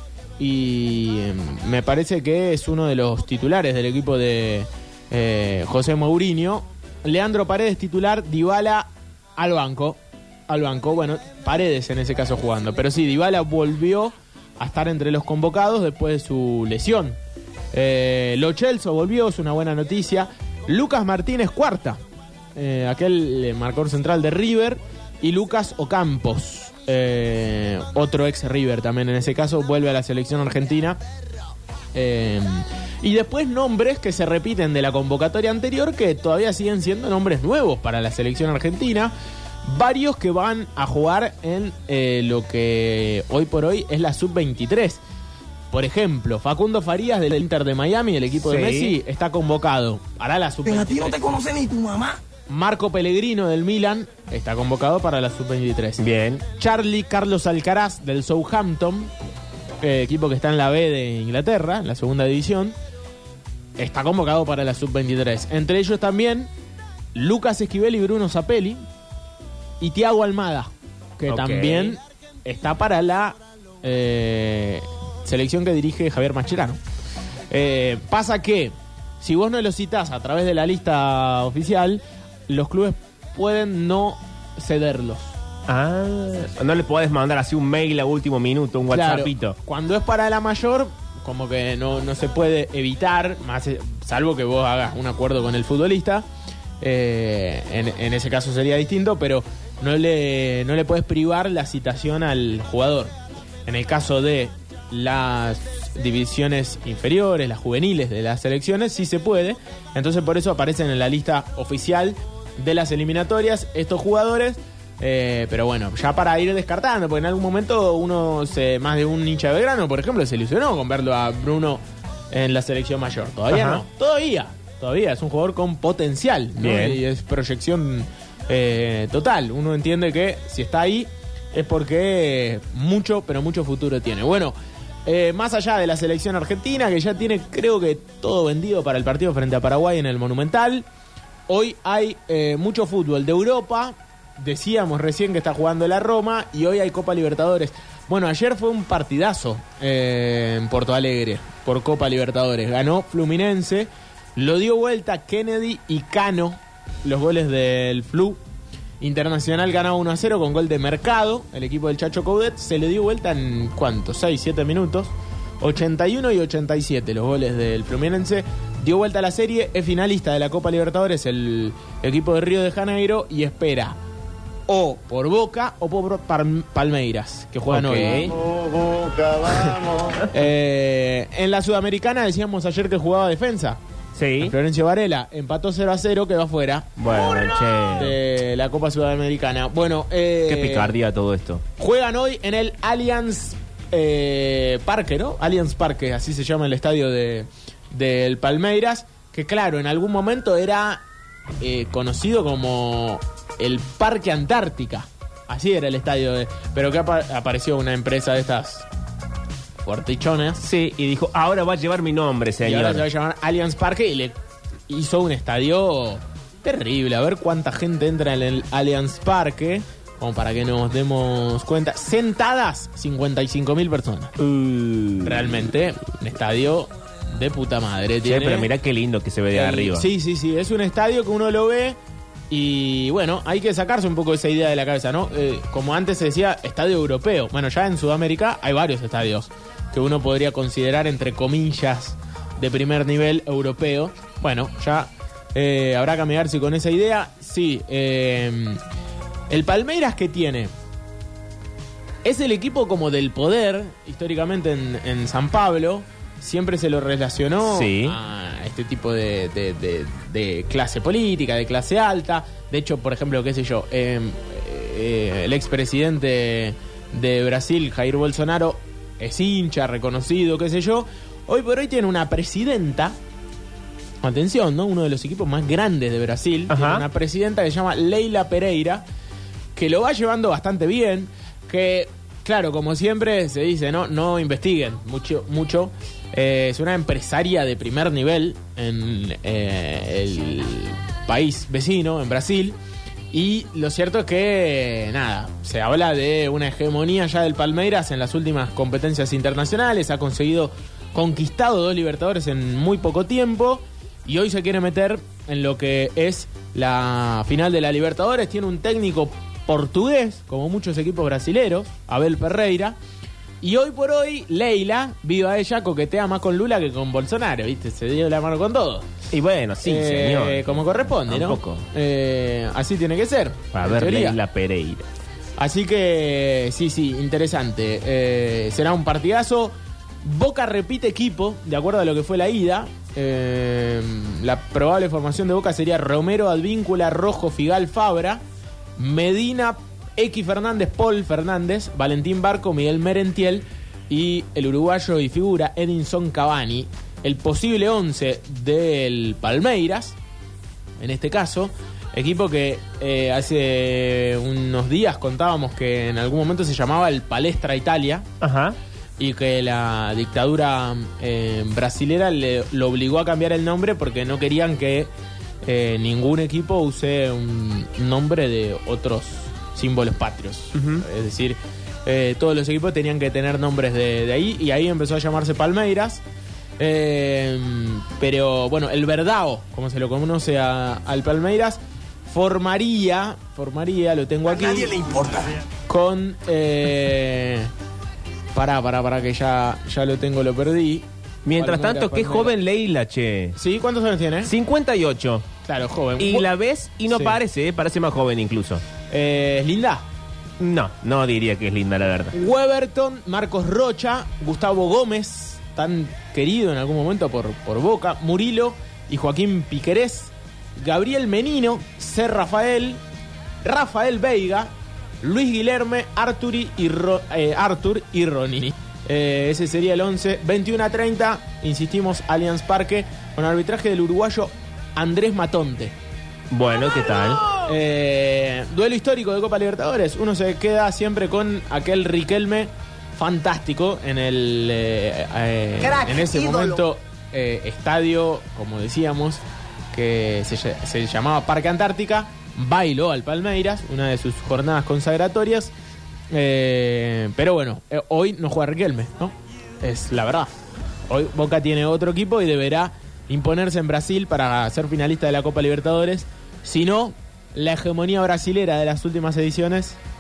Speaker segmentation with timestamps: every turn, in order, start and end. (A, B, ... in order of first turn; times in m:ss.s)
0:00.4-0:17.2 A
0:17.7-0:22.0 A
0:22.6-0:31.0 A
0:31.9-0:39.1 A
0:39.7-0:45.0 A
0:45.7-0:51.3 A
0:48.4-0:49.0 B
0:50.8-0:52.2 C
0:52.5-0:59.1 A
0:56.0-0:56.4 B
0:59.8-1:02.8 A
1:03.8-1:06.5 A
1:07.2-1:08.8 A
1:09.8-1:16.8 A
1:11.3-1:12.0 B
1:17.5-1:25.3 A
1:25.7-1:29.6 B
1:28.9-1:36.3 A
1:36.8-1:43.1 A
1:43.7-2:01.8 A
2:02.3-2:14.5 A
2:03.5-2:03.8 B
2:06.6-2:07.0 B
2:15.1-2:20.9 A
2:21.5-2:38.4 A
2:39.0-2:54.0 A
2:54.7-2:58.4 A
2:57.7-2:58.4 B
2:58.6-3:00.1 C
3:00.3-3:03.8 A
3:04.2-3:04.5 B
3:04.4-3:06.9 A
3:07.0-3:08.2 B
3:08.0-3:11.0 A
3:10.5-3:11.6 B
3:11.8-3:21.0 A
3:21.6-3:28.9 A
3:29.8-3:30.6 A
3:30.6-3:33.1 B
3:32.6-3:34.4 A
3:34.9-3:44.3 A
3:44.4-3:45.6 B
3:45.2-3:48.7 A
3:48.2-3:50.1 B
3:49.5-3:52.0 A
3:52.5-4:08.8 A
4:09.5-4:10.7 A
4:12.2-4:33.2 A
4:17.6-4:18.2 B
4:34.2-4:39.0 A
4:36.7-4:37.0 B
4:39.8-4:52.8 A
4:53.3-5:13.0 A
5:13.6-5:19.1 A
5:19.3-5:21.8 B
5:19.8-5:24.4 A
5:23.7-5:25.1 B
5:25.6-5:38.4 A
5:39.0-5:50.2 A
5:51.0-5:58.3 A
5:58.4-5:58.8 B
5:59.2-6:05.1 A
6:05.6-6:16.2 A
6:10.8-6:11.0 B
6:16.8-6:25.2 A
6:24.8-6:25.6 C
6:25.9-6:27.7 A
6:28.5-6:32.6 A
6:31.4-6:33.6 B
6:33.6-6:34.5 A
6:34.4-6:35.4 B
6:35.6-6:36.5 A
6:36.2-6:38.8 B
6:37.1-6:37.4 A
6:39.1-6:40.0 A
6:40.6-6:42.3 B
6:42.3-6:53.0 A
6:53.6-7:06.0 A
7:06.5-7:07.5 B
7:07.5-7:25.7 A
7:16.0-7:16.7 C
7:26.3-7:40.0 A